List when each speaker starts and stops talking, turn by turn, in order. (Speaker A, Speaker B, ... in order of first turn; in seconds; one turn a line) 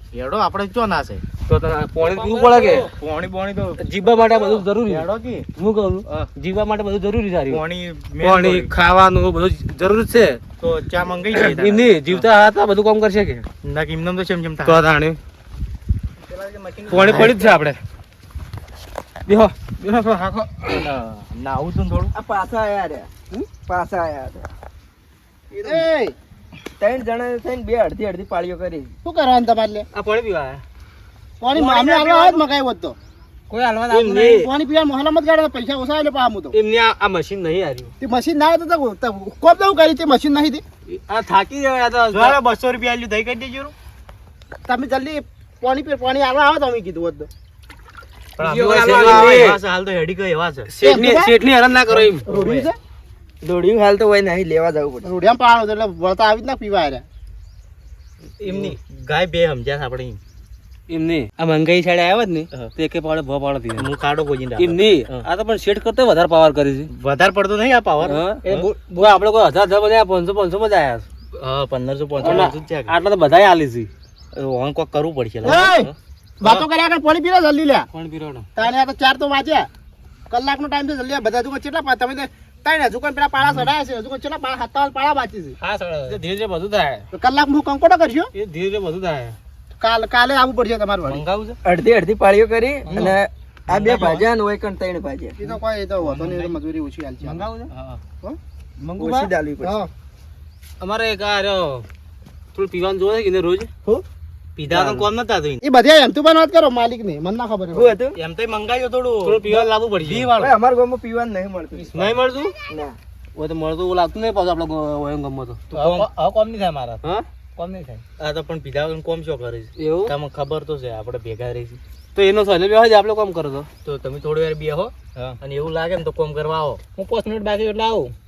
Speaker A: 0.1-1.2
Speaker B: 1.5-2.9
Speaker A: 2.1-5.5
Speaker B: 3.8-7.6
Speaker A: 7.5-8.7
Speaker B: 8.2-10.4
Speaker A: 10.6-12.3
Speaker B: 11.3-13.4
Speaker A: 13.6-14.8
Speaker B: 14.7-15.2
Speaker A: 16.2-17.6
Speaker B: 16.9-17.8
Speaker C: 17.1-17.4
Speaker B: 19.3-20.9
Speaker A: 20.7-22.1
Speaker C: 22.1-23.1
Speaker C: 23.7-24.5
Speaker A: 25.5-25.9
Speaker D: 25.6-26.2
Speaker C: 26.8-28.9
Speaker D: 29.1-29.9
Speaker B: 29.9-30.6
Speaker D: 31.4-33.0
Speaker A: 31.6-32.4
Speaker B: 33.5-34.5
Speaker D: 33.9-36.6
Speaker B: 36.5-37.9
Speaker D: 38.0-40.6
Speaker B: 40.9-42.4
Speaker A: 42.1-43.7
Speaker D: 44.7-47.3
Speaker A: 48.4-50.7
Speaker B: 48.4-49.6
Speaker B: 50.7-52.2
Speaker D: 50.8-51.3
Speaker A: 51.9-52.7
Speaker D: 52.3-52.8
Speaker C: 53.4-55.1
Speaker D: 55.0-57.0
Speaker A: 58.4-60.2
Speaker B: 58.5-58.8
Speaker B: 60.9-63.9
Speaker A: 63.8-65.3
Speaker B: 64.6-66.9
Speaker A: 66.9-69.0
Speaker B: 68.0-71.0
Speaker A: 71.4-73.0
Speaker B: 72.2-73.9
Speaker A: 74.3-75.9
Speaker D: 75.4-77.9
Speaker B: 77.9-78.5
Speaker D: 78.6-79.7
Speaker D: 80.3-85.6
Speaker A: 83.4-83.7
Speaker B: 85.6-87.0
Speaker D: 87.1-88.3
Speaker B: 88.3-89.4
Speaker D: 89.8-91.2
Speaker A: 91.1-91.6
Speaker C: 91.7-95.4
Speaker A: 92.9-93.2
Speaker A: 93.7-94.3
Speaker D: 95.4-97.5
Speaker A: 95.4-96.6
Speaker B: 97.2-97.7
Speaker A: 97.7-98.0
Speaker B: 98.8-99.3
Speaker C: 99.0-99.8
Speaker D: 99.6-99.9
Speaker B: 100.8-101.8
Speaker B: 102.5-103.7
Speaker A: 104.6-105.6
Speaker B: 104.7-105.0
Speaker D: 105.6-107.9
Speaker C: 107.7-108.2
Speaker A: 108.2-110.5
Speaker B: 109.2-110.3
Speaker C: 110.4-113.0
Speaker B: 111.9-112.5
Speaker B: 113.4-116.1
Speaker A: 115.7-117.0
Speaker A: 117.6-121.8
Speaker B: 119.8-120.1
Speaker B: 122.2-123.7
Speaker A: 123.8-126.8
Speaker B: 127.0-128.1